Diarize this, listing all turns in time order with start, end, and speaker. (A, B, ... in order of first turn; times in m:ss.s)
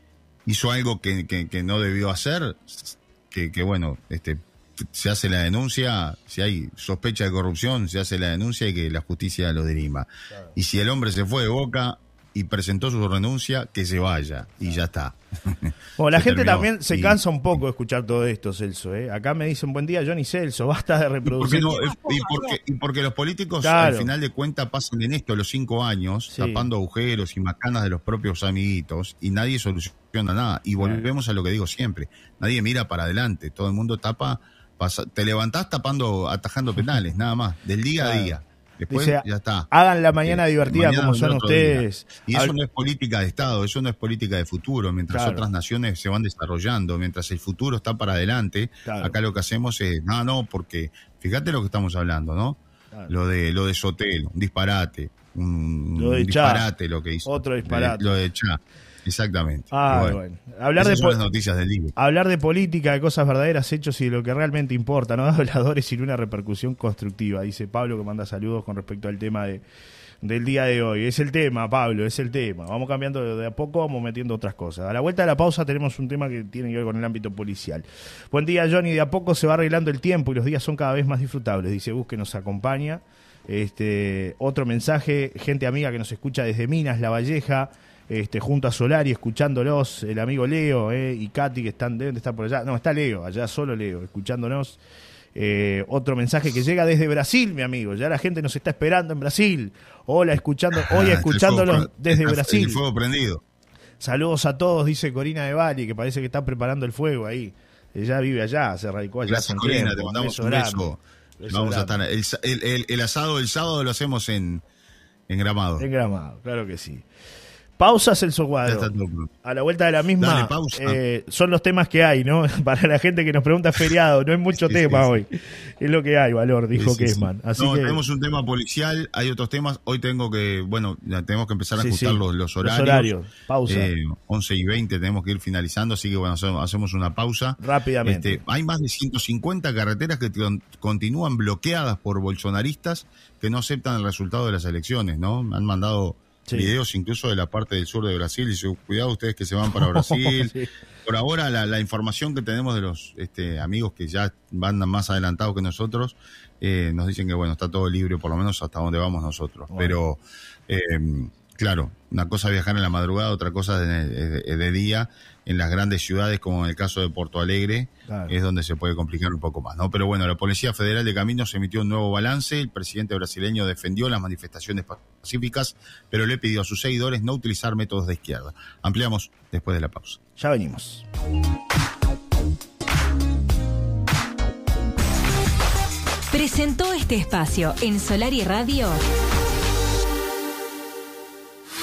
0:00.4-0:17.2 A
0:16.0-0:21.9 B
0:21.2-1:00.2 A
0:23.6-0:24.1 B
0:26.3-0:26.7 B
0:30.8-0:31.0 B
0:38.0-0:38.4 B
0:38.9-0:42.5 B
0:45.1-0:45.5 B
0:48.8-0:49.2 B
0:56.0-0:56.7 B
0:57.2-0:58.1 B
0:59.7-1:01.2 B
1:00.8-1:01.9 A
1:02.0-1:09.6 B
1:10.2-1:34.8 B
1:35.3-1:42.8 B
1:40.7-1:43.4 A
1:44.0-1:50.8 B
1:49.3-1:54.6 A
1:51.4-1:52.0 B
1:55.3-1:55.8 A
1:55.8-1:57.0 B
1:57.8-1:58.9 B
1:58.6-1:59.3 A
1:59.4-2:08.0 B
2:00.2-2:01.0 A
2:04.5-2:05.1 A
2:06.7-2:13.1 A
2:11.8-2:13.9 B
2:13.6-3:00.2 A
2:17.6-2:18.4 B
2:26.5-2:26.7 B
2:29.7-2:30.7 B
2:39.7-2:40.0 B
2:48.1-2:48.3 B
3:00.4-3:01.0 B
3:06.3-3:09.0 C